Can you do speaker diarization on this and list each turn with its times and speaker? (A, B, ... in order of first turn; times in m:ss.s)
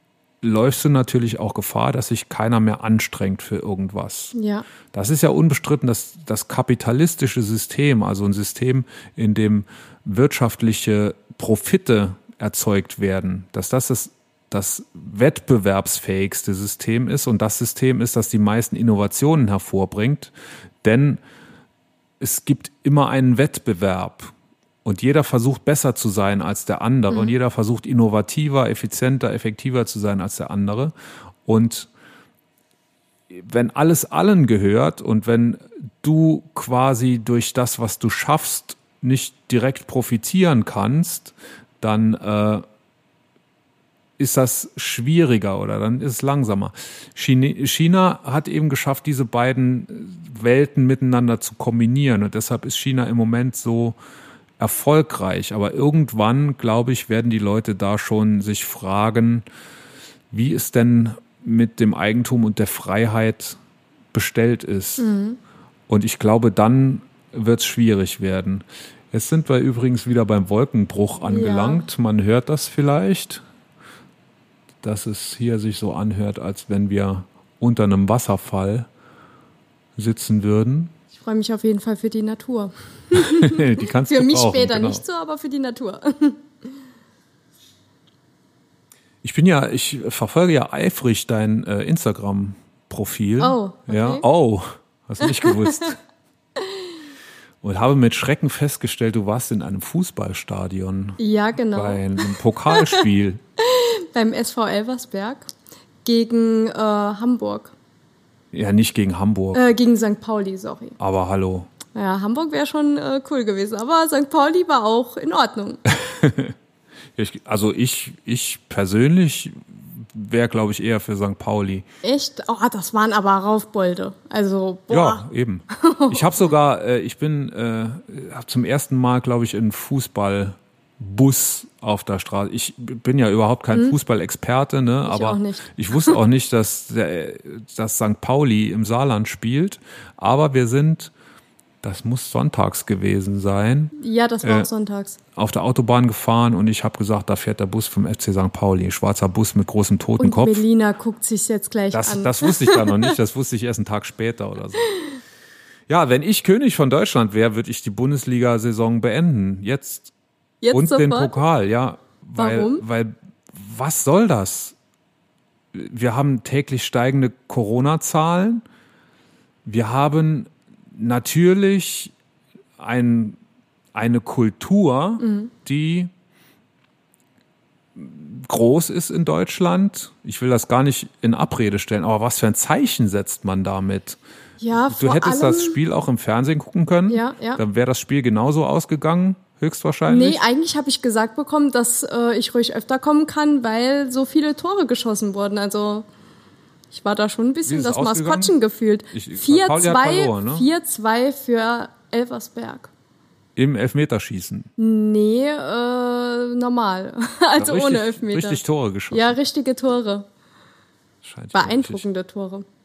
0:00.4-0:04.3 A
0:04.3-0:04.6 B
0:04.9-0:21.2 A
0:22.2-0:30.9 A
0:27.1-0:27.4 B
0:31.4-0:31.9 A
0:33.3-0:42.6 A
0:44.2-0:54.0 A
0:54.6-0:59.4 A
1:00.3-1:03.6 A
1:04.1-1:05.1 A
1:05.0-1:05.4 B
1:05.9-1:13.4 A
1:11.2-1:11.8 B
1:14.8-1:18.9 A
1:20.0-1:20.9 A
1:21.2-1:26.4 B
1:23.1-1:25.0 A
1:29.2-1:36.0 A
1:33.4-1:34.2 B
1:35.2-1:35.9 B
1:37.6-1:41.2 A
1:41.2-1:43.0 B
1:41.7-1:43.4 A
1:43.6-1:45.5 B
1:46.0-1:47.7 B
1:48.5-1:49.6 A
1:49.5-1:51.0 B
1:51.0-1:51.7 A
1:51.9-1:55.8 B
1:55.9-1:56.6 A
1:57.2-2:01.8 A
2:02.0-2:06.2 B
2:04.9-2:21.1 A
2:15.1-2:16.2 B
2:21.8-2:24.7 A
2:24.0-2:25.2 B
2:25.4-2:30.6 A
2:30.2-2:33.1 B
2:31.9-2:34.9 A
2:35.9-2:40.1 A
2:40.6-2:41.3 B
2:40.7-2:44.8 A
2:42.4-2:42.8 B
2:45.7-2:48.6 A
2:49.6-2:52.1 A
2:52.8-2:53.4 A
2:53.9-2:56.1 A
2:55.2-2:55.5 B
2:58.0-3:04.2 A
3:04.6-3:05.8 B
3:04.9-3:10.4 A
3:07.1-3:07.6 B
3:10.1-3:16.1 B
3:16.9-3:22.9 B
3:17.6-3:18.5 A
3:19.1-3:20.6 A
3:23.6-3:24.7 A
3:24.8-3:30.2 B
3:27.6-3:29.3 A
3:31.2-3:32.0 A
3:31.5-3:32.6 B